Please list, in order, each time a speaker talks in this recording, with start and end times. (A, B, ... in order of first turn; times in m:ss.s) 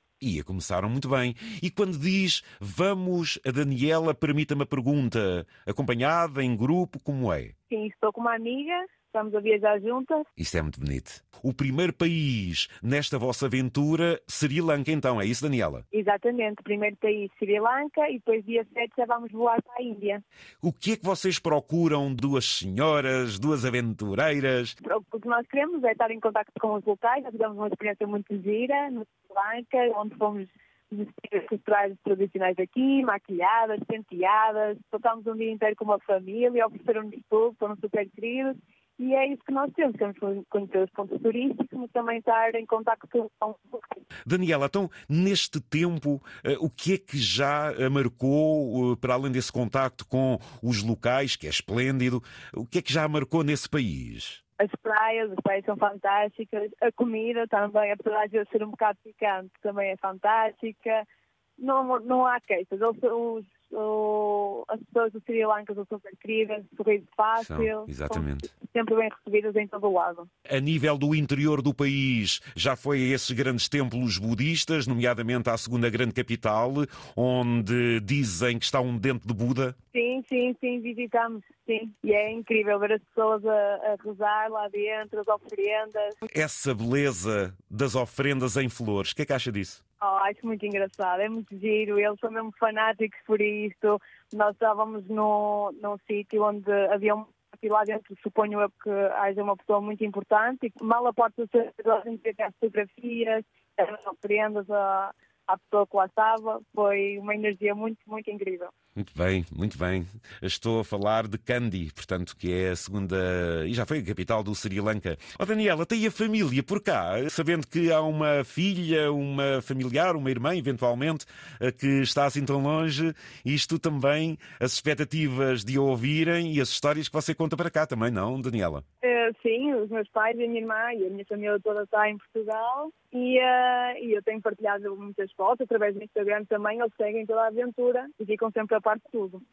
0:00.2-0:07.5 A
0:07.7-0:10.2 B
0:10.4-0:15.8 A
0:15.9-0:20.2 B
0:20.6-0:24.7 A
0:24.8-0:44.0 B
0:44.3-0:54.4 A
0:54.6-1:01.0 B
1:01.6-1:10.3 B
1:07.4-1:08.5 A
1:10.5-1:19.8 A
1:19.9-1:26.2 B
1:26.3-1:29.8 A
1:30.0-1:48.7 B
1:49.0-2:08.8 A
2:09.0-2:19.4 B